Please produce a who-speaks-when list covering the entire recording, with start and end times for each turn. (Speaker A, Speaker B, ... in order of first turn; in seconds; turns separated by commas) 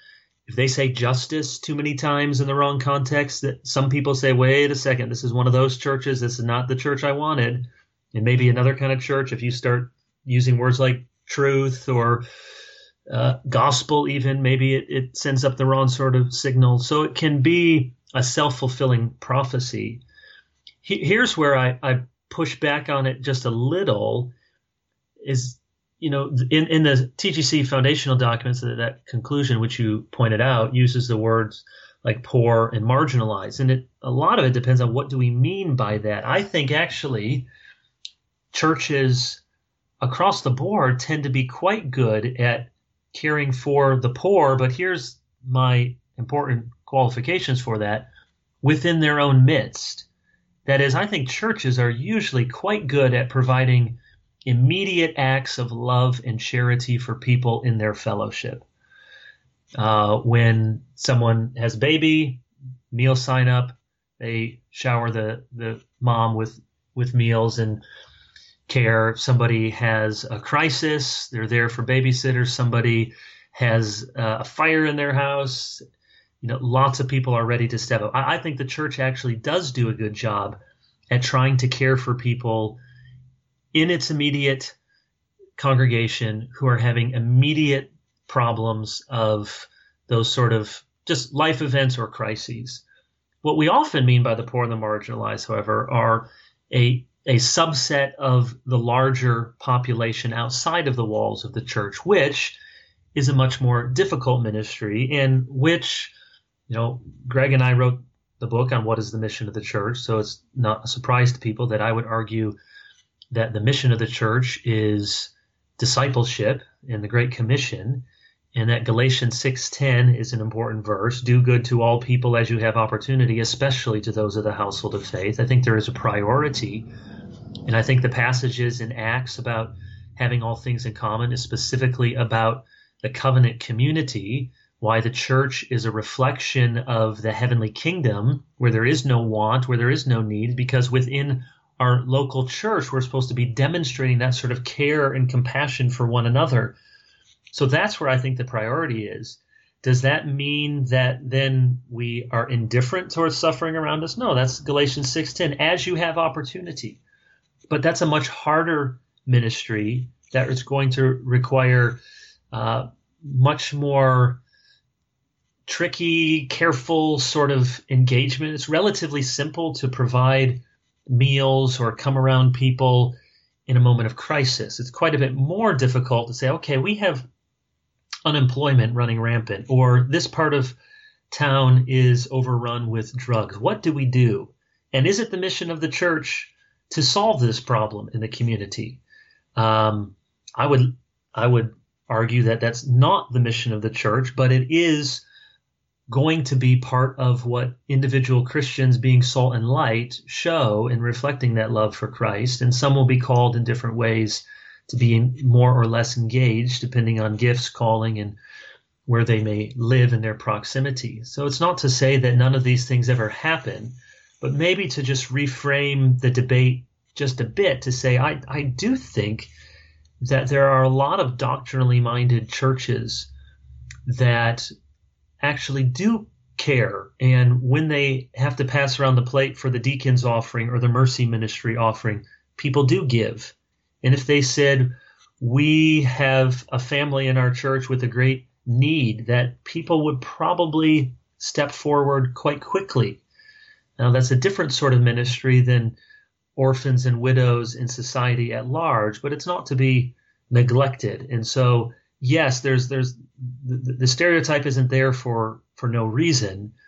Speaker A: 0.5-12.2, Speaker A: 13.1-20.0, Speaker A: 20.8-24.3, Speaker A: 25.2-37.5, Speaker A: 38.5-39.4, Speaker A: 40.0-48.1, Speaker A: 48.6-50.1, Speaker A: 50.7-58.7, Speaker A: 59.8-67.8, Speaker A: 68.7-75.8, Speaker A: 76.4-80.6, Speaker A: 81.1-82.8, Speaker A: 83.7-84.8, Speaker A: 85.6-92.8, Speaker A: 93.4-102.6, Speaker A: 103.2-106.1, Speaker A: 106.7-112.6, Speaker A: 113.3-126.9, Speaker A: 127.7-146.8, Speaker A: 147.5-157.0, Speaker A: 157.7-162.0, Speaker A: 162.5-164.4, Speaker A: 165.7-173.2, Speaker A: 173.7-177.3, Speaker A: 178.2-180.8, Speaker A: 181.3-189.0, Speaker A: 189.6-195.2, Speaker A: 196.1-208.4, Speaker A: 209.1-219.5, Speaker A: 220.2-223.3, Speaker A: 224.1-224.7, Speaker A: 225.4-243.2, Speaker A: 244.0-246.0, Speaker A: 246.6-256.7